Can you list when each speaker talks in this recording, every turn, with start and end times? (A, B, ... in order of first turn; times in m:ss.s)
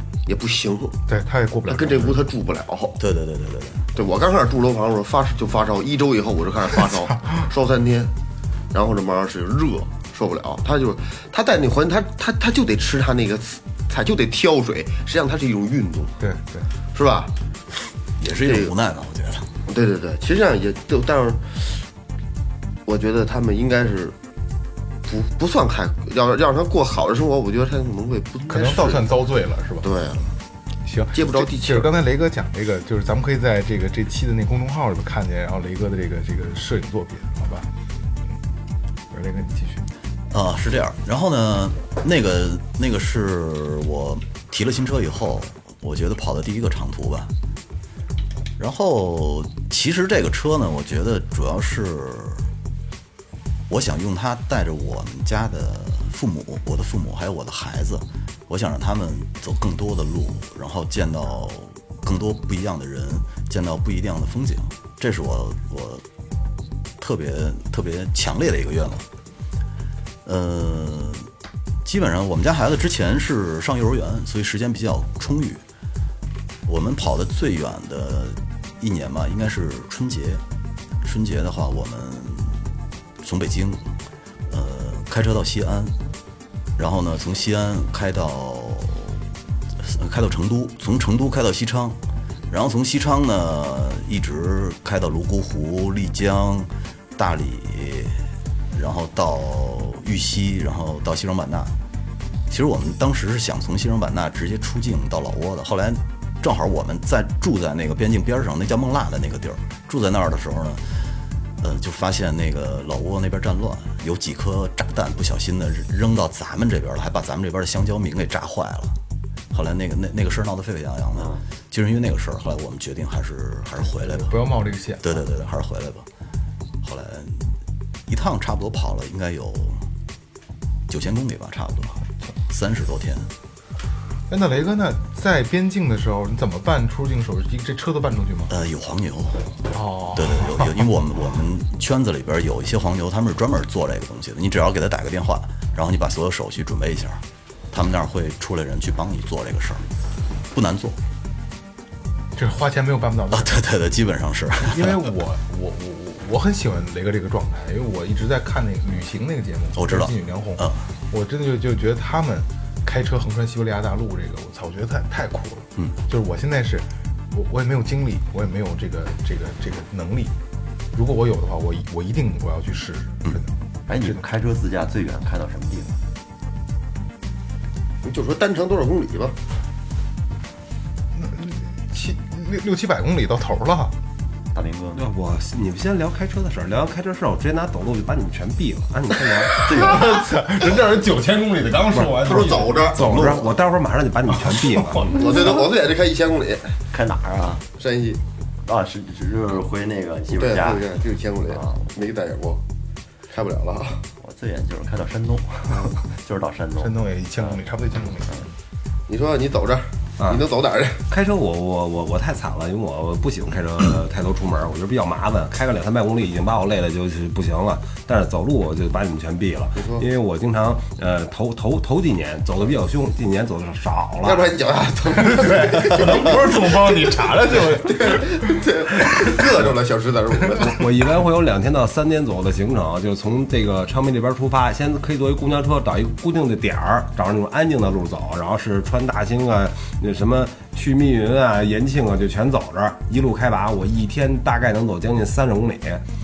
0:00.3-0:01.0 A
0:01.1-0:02.3 B
0:01.7-0:03.0 A
0:03.0-0:03.9 C
0:04.0-0:08.1 A
0:08.7-0:16.2 A
0:16.2-0:16.7 B
0:16.9-0:17.3 A
0:18.2-0:19.5 C
0:18.4-0:18.7 A
0:19.7-0:21.8 A
0:22.9-0:24.2 A
0:25.0-0:29.1 A
0:28.5-0:30.0 B
0:29.8-0:30.3 A
0:30.8-0:37.7 B
0:31.1-0:31.9 A
0:39.1-0:39.9 B
0:40.3-0:47.3 C
0:48.6-0:52.4 C
0:53.7-1:06.0 C
1:07.0-1:09.0 C
1:10.2-1:11.3 C
1:11.8-1:15.6 C
1:16.7-1:20.4 C
1:21.0-1:22.6 C
1:23.2-1:23.8 C
1:24.5-1:26.0 C
1:26.8-1:29.2 C
1:29.8-1:38.2 C
1:38.7-1:41.7 C
1:42.5-1:50.9 C
1:51.6-1:59.0 C
1:59.5-2:04.4 C
2:03.8-2:05.2 B
2:05.0-2:06.1 C
2:06.8-2:07.5 C
2:08.1-2:09.8 C
2:10.9-2:13.3 C
2:14.3-2:18.5 B
2:18.5-2:19.5 C
2:19.7-2:20.8 B
2:20.1-2:29.9 C
2:30.5-2:31.0 C
2:32.4-2:33.6 B
2:33.3-2:35.0 C
2:34.6-2:50.4 B
2:39.8-2:40.8 C
2:50.9-2:54.2 B
2:53.9-2:56.0 D
2:58.0-2:59.4 A
3:01.1-3:04.0 B
3:04.5-3:05.1 D
3:05.0-3:09.9 E
3:09.5-3:13.0 B
3:09.7-3:10.2 D
3:12.1-3:13.5 A
3:12.1-3:15.2 E
3:14.8-3:15.3 B
3:15.1-3:16.8 A
3:16.9-3:17.6 D
3:17.8-3:18.2 A
3:18.6-3:21.0 D
3:20.4-3:22.6 A
3:21.5-3:21.8 D
3:23.3-3:24.0 A
3:24.2-3:27.0 D
3:26.8-3:28.5 B
3:29.1-3:31.0 A
3:30.2-3:30.4 E
3:31.1-3:44.5 E
3:39.8-3:40.0 A
3:44.2-3:50.8 A
3:45.1-3:49.4 B
3:50.6-4:06.0 E